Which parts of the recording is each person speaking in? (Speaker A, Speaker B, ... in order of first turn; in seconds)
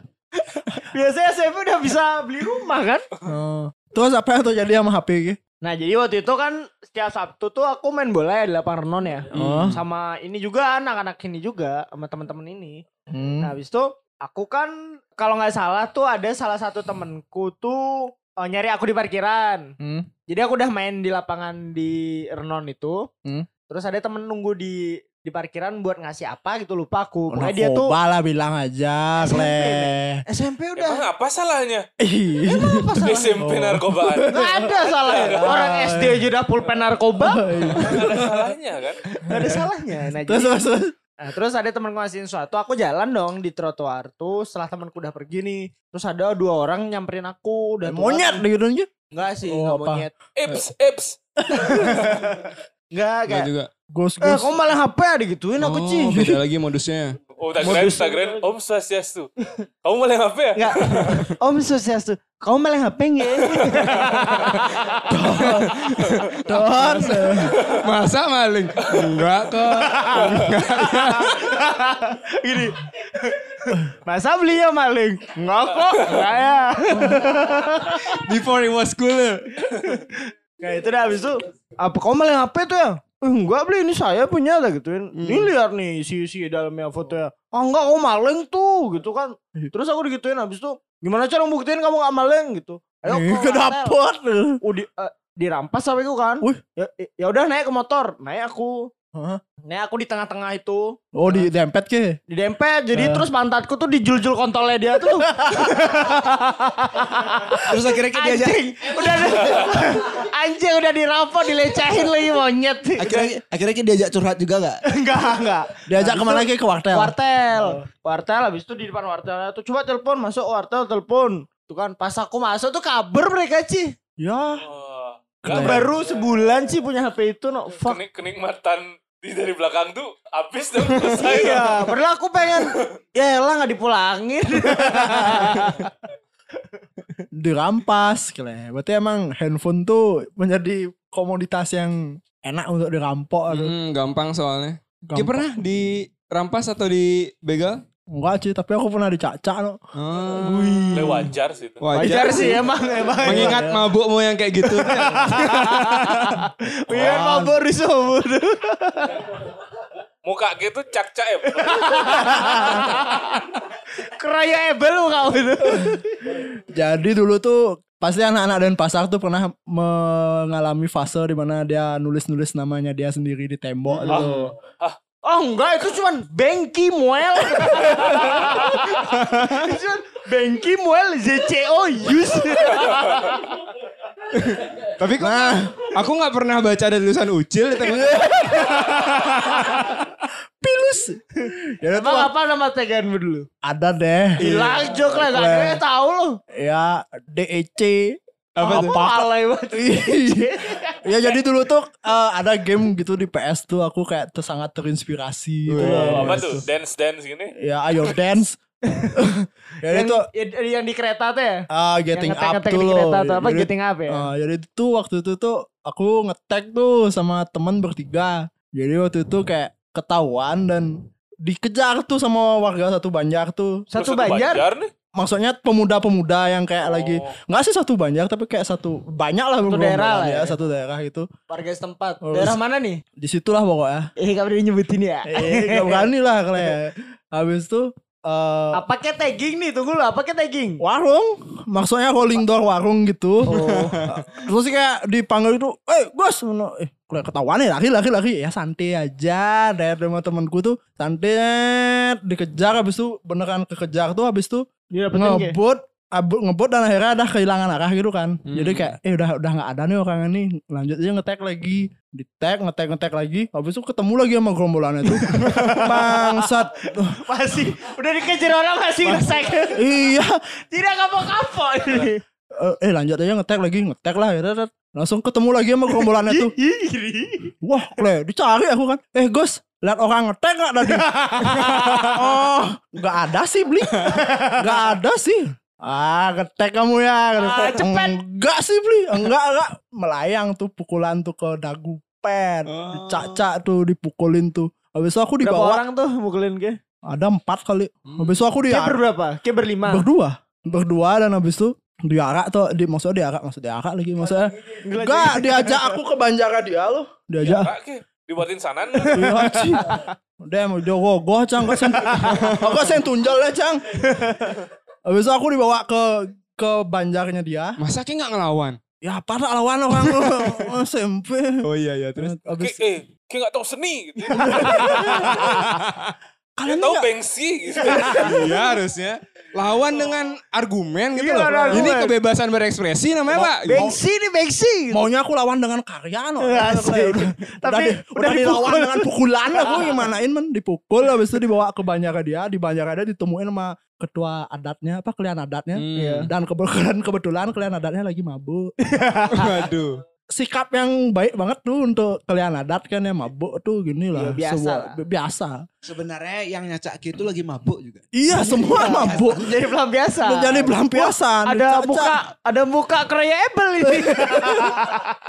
Speaker A: 0.5-3.1, 5.6-12.8, 13.4-19.7, 20.3-23.1, 23.7-27.9, 29.2-31.1, 32.5-33.4, 34.3-38.1, 39.2-40.6, 41.2-48.4, 49.1-50.1, 51.6-53.5, 54.2-56.2, 57.6-58.4, 60.5-65.4, 66.8-67.3, 69.7-78.2, 79.7-94.0, 94.6-98.9, 99.6-101.5, 102.3-113.3, 114.9-123.9, 125.5-128.0, 131.0-135.9, 150.4-151.3, 151.9-153.7, 154.7-159.3, 161.6-166.3, 175.2-183.7, 188.1-190.0, 191.4-193.5, 194.4-196.4, 198.6-201.1, 208.9-209.2, 209.9-214.2, 223.9-224.7, 229.6-230.6, 231.5-233.0, 234.2-236.1, 238.7-240.8, 243.4-244.1, 254.9-255.6, 265.1-269.9, 270.7-272.2, 275.9-277.6, 280.8-282.1, 284.0-284.9, 287.4-288.2, 295.4-296.8, 298.7-300.1, 304.8-305.9, 309.0-310.1, 311.8-312.4, 314.0-314.6, 324.5-325.6, 327.8-328.6, 331.2-332.1, 333.3-335.0, 336.4-340.1, 345.9-346.3, 348.8-349.7, 354.1-354.9, 358.3-365.2
Speaker B: 3.3-5.4, 9.3-9.8, 13.1-13.5, 19.8-20.1, 27.3-30.2, 32.0-34.7, 35.3-36.3, 37.2-38.5, 39.3-39.6, 40.2-40.9, 47.9-48.9, 49.5-50.1, 51.5-52.1, 53.9-54.6, 56.1-56.4, 65.1-67.6, 77.0-77.3, 93.1-94.6, 99.1-99.4, 101.1-102.2, 102.9-103.3, 105.3-105.9, 115.9-117.8, 124.2-124.6, 125.5-125.9, 137.3-143.7, 145.1-145.6, 148.1-149.8, 152.0-152.6, 153.3-153.8, 162.4-162.8, 165.8-174.5, 185.2-185.9, 187.9-190.1, 190.6-192.3, 193.6-195.8, 196.6-198.2, 198.7-206.7, 207.6-208.6, 209.1-210.2, 211.7-223.9, 225.2-231.3, 232.2-232.6, 233.2-234.1, 235.3-238.8, 240.8-243.5, 244.1-267.2, 269.1-270.4, 272.6-276.5, 277.6-295.8, 297.1-299.0, 299.9-307.7, 309.1-313.8, 315.1-317.8, 319.0-321.6, 322.2-322.8, 324.4-325.6, 326.6-327.1, 331.5-331.9, 333.7-334.0, 334.9-348.7, 350.3-355.6, 358.1-359.5, 360.2-362.1, 363.8-364.9
Speaker C: 9.3-9.8, 53.3-53.7, 55.6-58.0, 61.0-61.3, 64.4-64.7, 65.4-71.5, 78.0-79.7, 85.1-85.5, 143.5-147.8, 149.9-151.2, 151.8-156.2, 174.1-174.5, 184.3-189.1, 194.4-195.0, 198.6-199.0, 205.7-206.6, 243.5-244.2, 258.4-258.9, 292.7-293.4, 298.1-298.4, 312.2-312.8, 317.8-318.8, 320.2-320.6, 321.6-322.4, 325.5-326.1, 328.2-333.9, 345.7-346.3, 349.3-350.0
Speaker D: 30.8-31.9, 33.0-35.7, 37.6-39.0, 50.4-51.2, 57.4-61.1, 124.6-126.2, 127.8-132.0, 132.6-132.9, 150.9-151.8, 156.9-157.5, 160.2-162.5, 174.1-175.0, 205.9-207.5, 224.0-224.9, 226.8-227.3, 307.4-309.3, 322.6-325.4, 326.7-328.2
Speaker E: 107.6-109.6, 113.0-114.8, 355.8-358.1, 358.7-359.4